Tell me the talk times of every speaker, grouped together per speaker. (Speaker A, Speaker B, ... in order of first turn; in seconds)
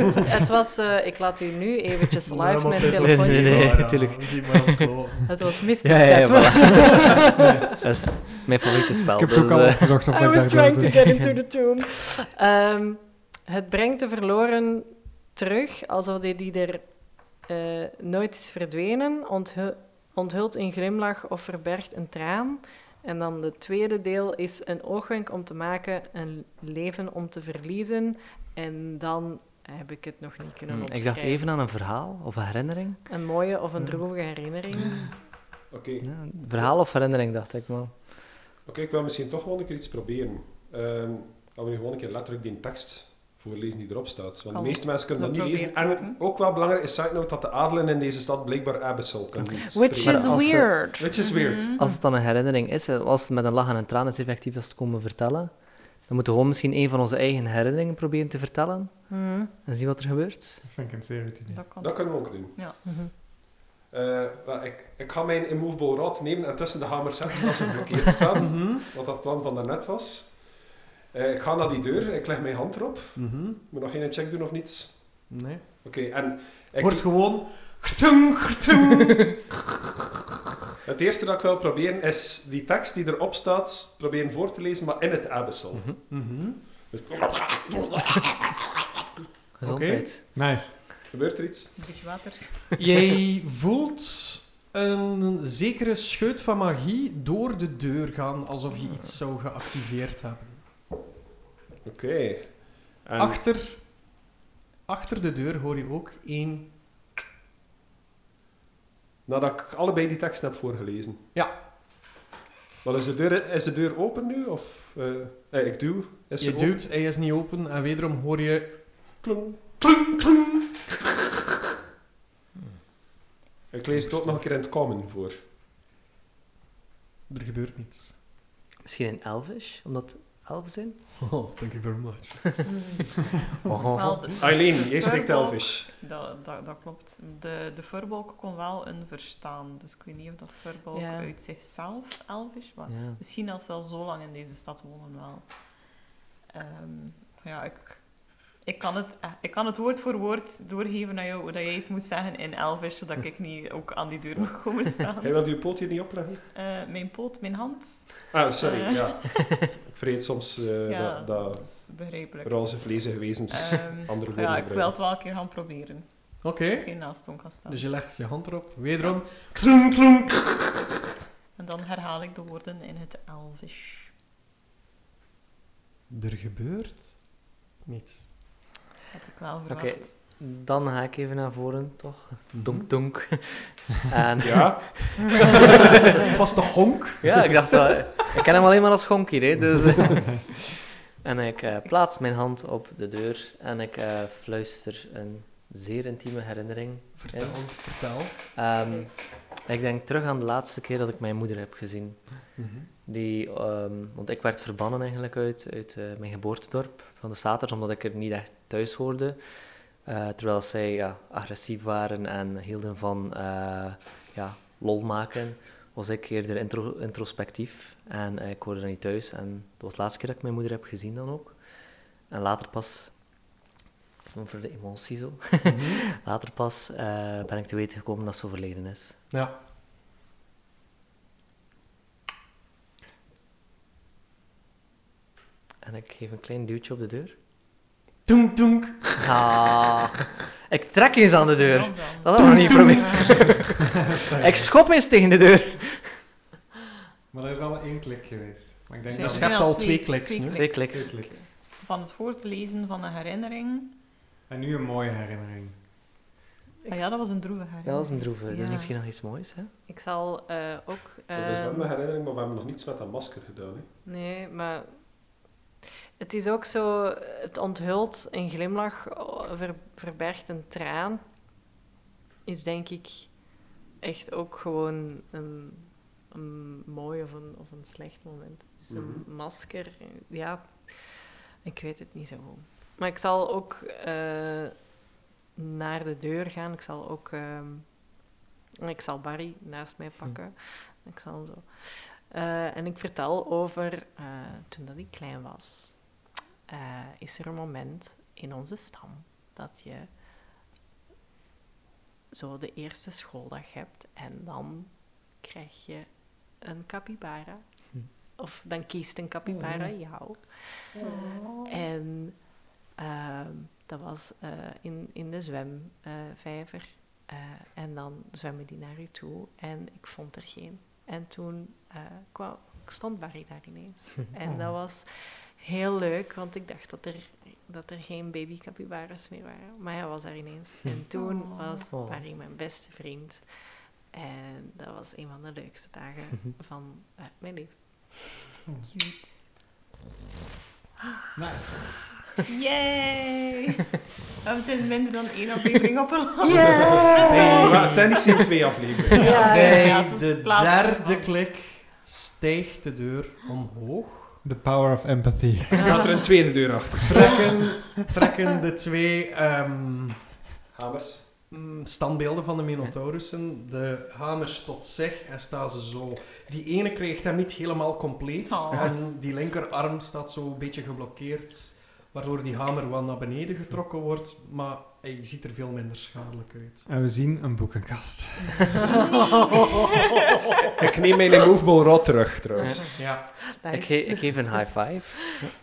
Speaker A: 0.2-4.0, 5.2-7.5, 10.1-31.5, 33.1-35.2, 49.5-51.1, 59.1-59.5, 62.8-63.1, 140.9-141.3, 251.1-251.4, 256.8-257.2, 259.9-261.9, 264.0-265.4, 266.2-271.2, 272.4-284.9, 285.5-300.2, 302.3-338.2, 346.5-347.9, 349.2-350.0, 355.8-356.2, 378.9-379.5, 382.8-385.4
Speaker B: 2.2-5.3, 68.4-68.8, 73.2-73.6, 75.3-76.2, 76.8-79.2, 86.1-86.6, 89.6-90.1, 92.8-100.6, 103.2-104.1, 104.8-107.1, 116.4-120.6, 123.9-124.4, 127.3-128.2, 131.2-132.6, 166.4-170.7, 176.1-178.7, 182.5-182.9, 185.7-188.0, 197.2-198.3, 202.6-202.9, 225.6-226.1, 238.2-239.2, 242.4-242.7, 249.2-250.6, 347.2-348.2, 349.3-354.4, 357.0-360.3, 361.5-376.9, 382.9-383.4
Speaker C: 2.8-4.9, 5.8-7.2, 7.8-10.0, 10.9-11.3, 30.7-33.0, 36.0-38.2, 49.9-50.8, 51.8-60.6, 89.6-90.4, 128.8-131.0, 133.7-134.4, 142.9-143.2, 179.7-185.8, 187.2-190.5, 191.2-223.5, 224.3-229.2, 235.8-237.3, 239.2-246.2, 250.6-251.4, 257.8-259.7, 331.9-332.2, 383.6-385.4
Speaker D: 7.4-8.3, 9.1-11.3, 60.6-61.6, 90.3-90.7, 244.2-244.7, 247.3-249.6, 250.9-251.5, 254.5-255.8, 324.4-324.7, 341.4-342.0, 354.4-356.3, 376.9-378.8
Speaker E: 35.7-36.7, 38.6-51.8, 61.8-77.0, 80.8-86.1, 86.9-88.2, 91.1-91.7, 101.8-103.4, 109.2-111.2, 112.8-116.8, 119.2-119.8, 123.7-125.3, 134.3-135.9, 155.2-156.4, 158.3-164.9, 184.4-185.6, 261.3-263.9, 278.9-279.2, 346.8-347.0, 347.6-349.4, 355.8-357.4, 360.7-361.3, 380.8-382.9
Speaker F: 44.5-46.2, 51.1-51.9, 61.5-62.8, 91.8-92.7, 133.9-145.9, 146.5-155.4, 156.5-159.4, 160.8-167.8, 171.5-174.1, 179.1-180.2, 241.3-243.3, 249.1-253.9, 256.9-258.8, 311.0-311.8, 331.1-331.9, 338.9-339.5, 342.5-343.7, 344.4-347.7, 349.2-351.3, 368.4-368.9